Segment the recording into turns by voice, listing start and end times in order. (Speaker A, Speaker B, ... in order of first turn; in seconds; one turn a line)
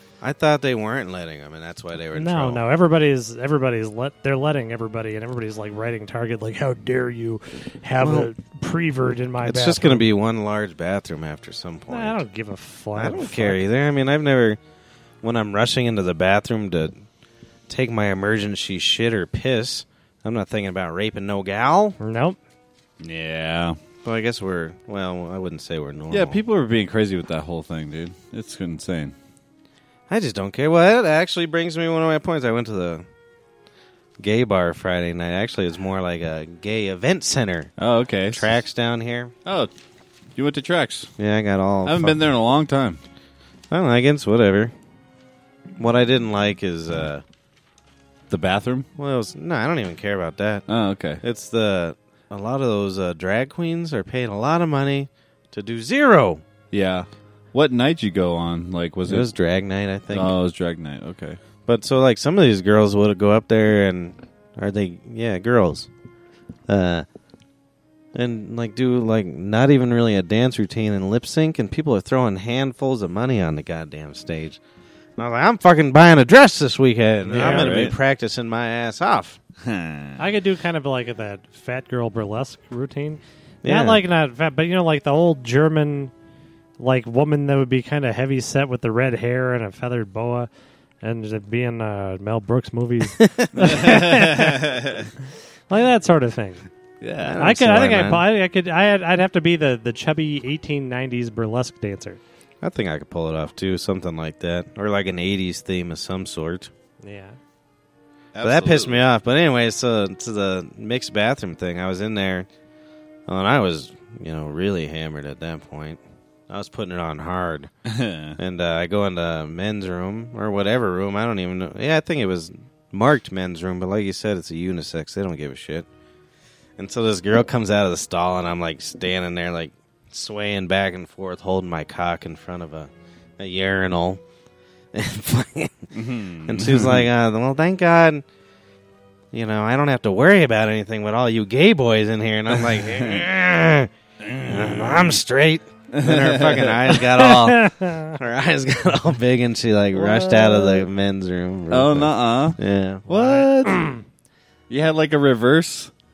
Speaker A: 0.2-2.6
Speaker B: 2.1-10.1
Speaker A: 8.0-8.3
Speaker A: 9.4-12.2
Speaker B: 11.9-13.6
Speaker A: 12.9-14.6
Speaker A: 15.2-16.9
Speaker A: 17.7-22.0
Speaker B: 22.0-22.4
Speaker C: 23.0-23.8
Speaker A: 24.0-26.4
Speaker C: 26.1-29.1
Speaker A: 30.1-33.0
Speaker A: 34.2-37.7
Speaker C: 37.8-38.5
Speaker A: 38.3-39.3
Speaker C: 39.4-39.7
Speaker C: 40.3-41.1
Speaker A: 41.2-42.2
Speaker C: 41.8-43.0
Speaker A: 43.7-44.7
Speaker A: 45.8-47.2
Speaker C: 48.3-48.9
Speaker A: 49.0-50.6
Speaker C: 50.7-51.2
Speaker A: 51.2-56.4
Speaker C: 56.7-59.3
Speaker A: 59.0-60.4
Speaker C: 60.1-61.4
Speaker A: 61.6-65.9
Speaker A: 66.7-67.0
Speaker A: 68.1-74.6
Speaker A: 75.2-79.4
Speaker B: 77.3-77.9
Speaker C: 77.3-78.0
Speaker C: 79.6-80.2
Speaker B: 80.2-86.1
Speaker A: 83.6-84.0
Speaker B: 86.8-90.5
Speaker B: 91.0-94.7
Speaker A: 93.2-93.5
Speaker C: 93.5-95.1
Speaker B: 95.7-96.7
Speaker C: 97.0-97.4
Speaker A: 97.2-98.2
Speaker B: 97.4-102.2
Speaker A: 102.6-106.7
Speaker B: 107.0-107.4
Speaker C: 108.3-109.0
Speaker A: 108.4-112.5
Speaker A: 113.3-117.7
Speaker C: 117.8-118.4
Speaker A: 118.4-125.9
Speaker A: 126.8-134.2
Speaker A: 134.9-135.9
Speaker C: 135.9-137.1
Speaker A: 136.4-138.2
Speaker A: 139.3-153.1
Speaker C: 144.2-145.2
Speaker C: 145.9-147.0
Speaker B: 147.2-148.1
Speaker C: 149.9-150.9
Speaker C: 151.7-153.9
Speaker B: 153.1-154.0
Speaker C: 154.7-155.9